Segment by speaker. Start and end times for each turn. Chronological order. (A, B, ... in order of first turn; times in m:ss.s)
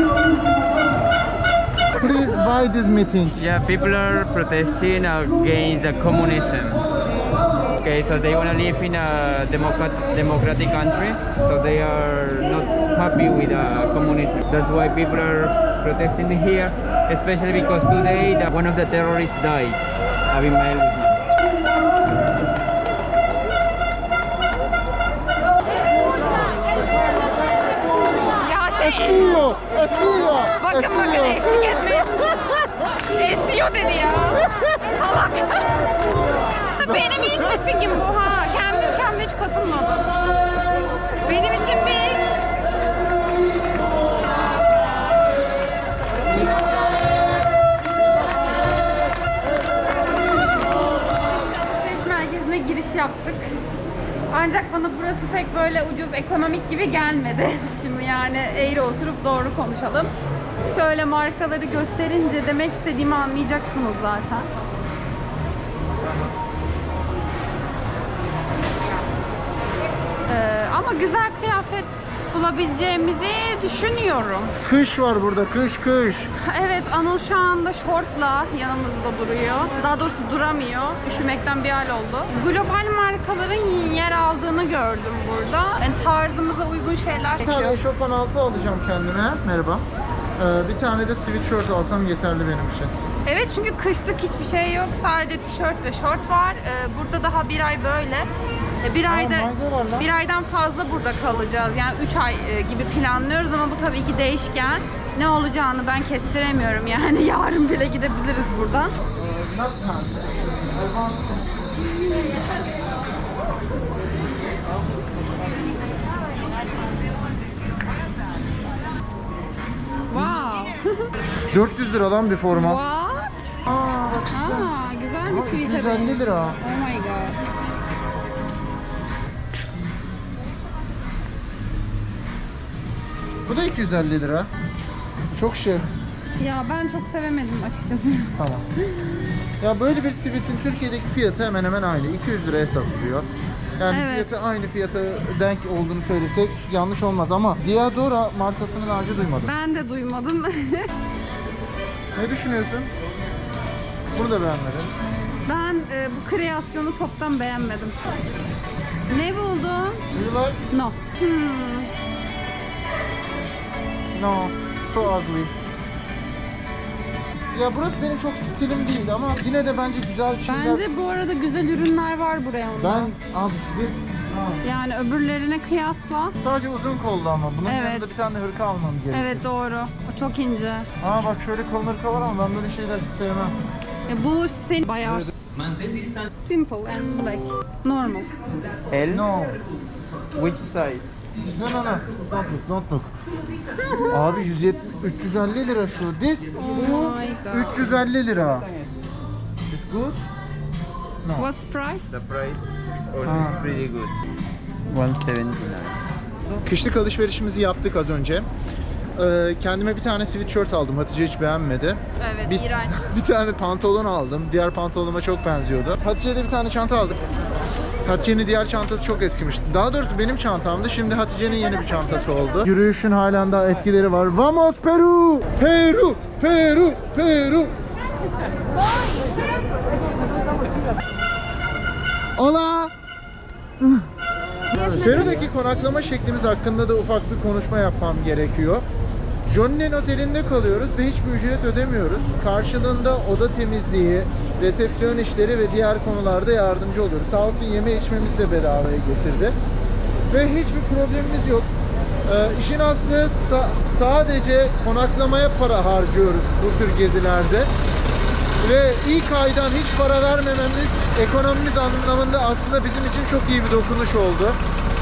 0:02.0-0:03.4 A
0:03.4-0:21.2 B
0:28.3-0:29.5 C
0:28.8-0:31.7 A
0:30.6-0:32.3 C
0:33.1-0:35.9 C
0:36.8-0:40.2 C
0:41.2-0:42.3 C
0:51.3-0:53.6 C
0:54.3-1:00.1 C
1:00.7-1:04.5 C
1:10.3-1:14.6 C
1:14.6-1:16.3 A
1:16.4-1:27.8 C
1:27.4-1:29.8 A
1:30.4-1:32.9 A
1:33.2-1:38.3 C
1:38.8-1:48.9 C
1:39.1-1:40.1 A
1:49.1-1:51.5 A
2:00.1-2:01.1 C
2:01.5-2:02.8 A
2:02.5-2:03.4 C
2:03.7-2:06.6 A
2:04.3-2:07.4 C
2:13.4-2:14.5 A
2:15.3-2:15.9 A
2:16.4-2:18.4 C
2:18.4-2:18.6 A
2:19.6-2:23.3 A
2:23.8-2:29.5 A
2:23.9-2:24.4 C
2:29.4-2:30.9 C
2:32.1-2:32.9 A
2:34.1-2:34.9 A
2:35.4-2:38.2 C
2:39.1-2:40.0 C
2:40.1-2:40.6 A
2:40.7-2:41.9 C
2:44.1-2:45.5 A
2:47.5-2:50.8 A
2:50.5-2:53.1 C
2:52.8-2:54.7 A
2:54.6-2:56.4 C
2:56.4-2:59.4 A
2:57.6-2:58.1 C
2:59.1-3:00.9 C
3:01.0-3:03.6 A
3:04.1-3:05.3 C
3:06.4-3:08.3 C
3:08.9-3:09.2 B
3:09.1-3:09.6 A
3:10.3-3:11.0 B
3:11.5-3:13.1 A
3:13.8-3:14.4 C
3:14.1-3:18.7 A
3:16.6-3:18.0 C
3:19.7-3:20.2 A
3:21.4-3:22.2 C
3:22.1-3:24.1 B
3:23.2-3:23.7 A
3:24.9-3:26.0 B
3:26.6-3:28.5 A
3:29.2-3:37.2 A
3:32.2-3:33.0 C
3:38.0-3:47.7 A
3:52.4-3:52.9 A
3:53.8-3:54.1 A
3:54.8-3:55.3 C
3:54.8-3:58.8 A
3:59.4-4:09.6 A
4:10.3-4:11.7 A
4:12.2-4:17.7 A
4:18.6-4:24.6 A